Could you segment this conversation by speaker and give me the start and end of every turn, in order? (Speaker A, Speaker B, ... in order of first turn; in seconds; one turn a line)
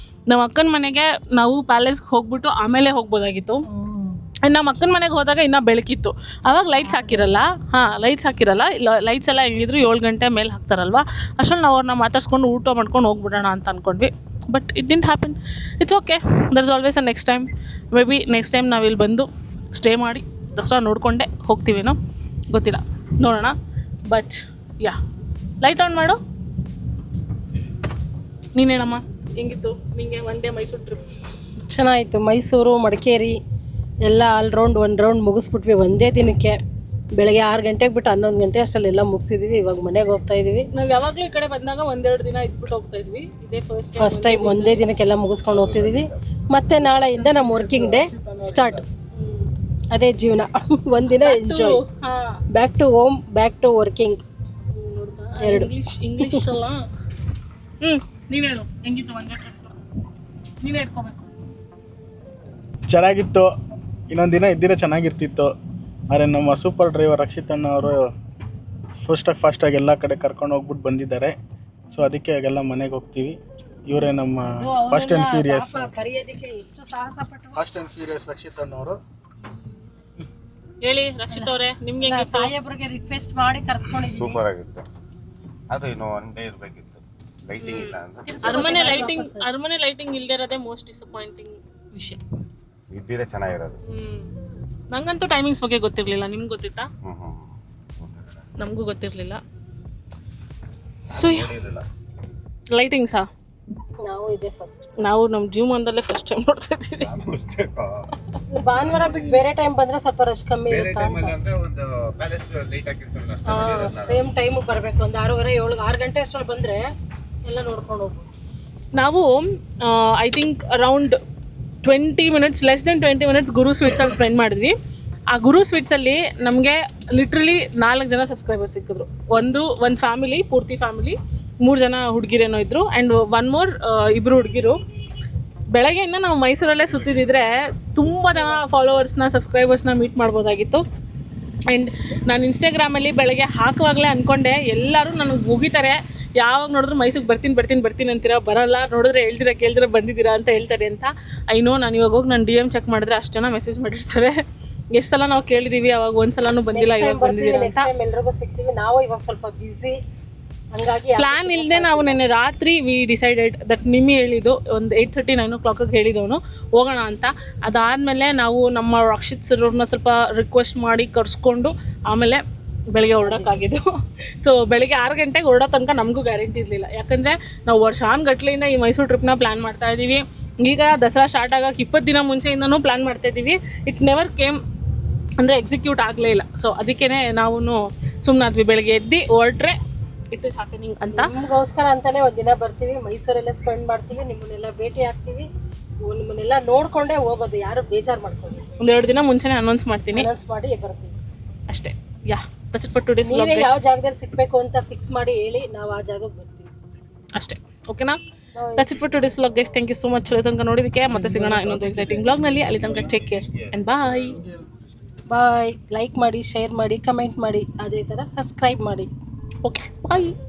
Speaker A: 0.3-3.6
Speaker B: 3.7-4.2
Speaker A: 4.4-22.0
Speaker B: 6.8-7.4
Speaker A: 22.5-23.6
Speaker A: 24.1-25.0
Speaker A: 25.6-26.2
Speaker A: 28.6-31.0
Speaker B: 31.7-33.4
Speaker B: 34.0-36.6
Speaker B: 37.1-40.7
Speaker A: 40.7-44.9
Speaker B: 44.0-48.9
Speaker C: 45.5-46.2
Speaker D: 47.0-48.6
Speaker A: 49.1-49.5
Speaker B: 49.9-51.8
Speaker A: 51.1-52.4
Speaker B: 52.5-54.2
Speaker A: 54.7-56.8
Speaker B: 55.4-56.6
Speaker A: 57.8-59.7
Speaker A: 60.6-61.3
Speaker D: 62.9-63.5
Speaker D: 64.1-65.5
Speaker D: 66.1-68.1
Speaker D: 69.0-71.4
Speaker D: 71.9-76.0
Speaker B: 74.5-77.6
Speaker D: 77.6-79.0
Speaker A: 80.8-82.5
Speaker B: 81.3-84.4
Speaker C: 84.0-84.9
Speaker C: 85.7-89.0
Speaker A: 87.6-92.2
Speaker B: 88.2-89.5
Speaker C: 92.9-93.8
Speaker A: 93.9-94.3
Speaker A: 94.9-96.9
Speaker C: 97.0-98.5
Speaker A: 98.6-99.4
Speaker A: 101.1-101.5
Speaker C: 101.1-101.8
Speaker A: 102.7-103.3
Speaker B: 104.0-104.9
Speaker A: 105.0-107.1
Speaker C: 107.0-108.0
Speaker B: 108.5-111.3
Speaker C: 110.7-114.3
Speaker A: 113.5-113.9
Speaker B: 113.9-116.8
Speaker B: 117.5-118.3
Speaker A: 119.0-121.2
Speaker A: 121.8-124.8
Speaker A: 125.3-134.8
Speaker A: 135.7-140.8
Speaker C: 136.7-137.5
Speaker A: 141.7-154.4
Speaker A: 154.9-157.9
Speaker B: 156.7-160.0
Speaker B: 160.7-162.2
Speaker A: 161.2-184.6
Speaker B: 173.2-173.6
Speaker A: 185.4-189.8
Speaker A: 190.3-191.3
Speaker B: 191.1-195.5
Speaker B: 196.0-198.7
Speaker A: 198.8-200.3
Speaker B: 200.1-201.1
Speaker A: 201.7-203.8
Speaker B: 203.2-206.7
Speaker A: 207.3-208.2
Speaker B: 208.6-209.6
Speaker A: 208.8-214.4
Speaker B: 211.1-211.8
Speaker D: 211.2-213.2
Speaker C: 212.8-214.5
Speaker D: 214.2-215.1
Speaker B: 215.3-219.1
Speaker A: 219.6-220.4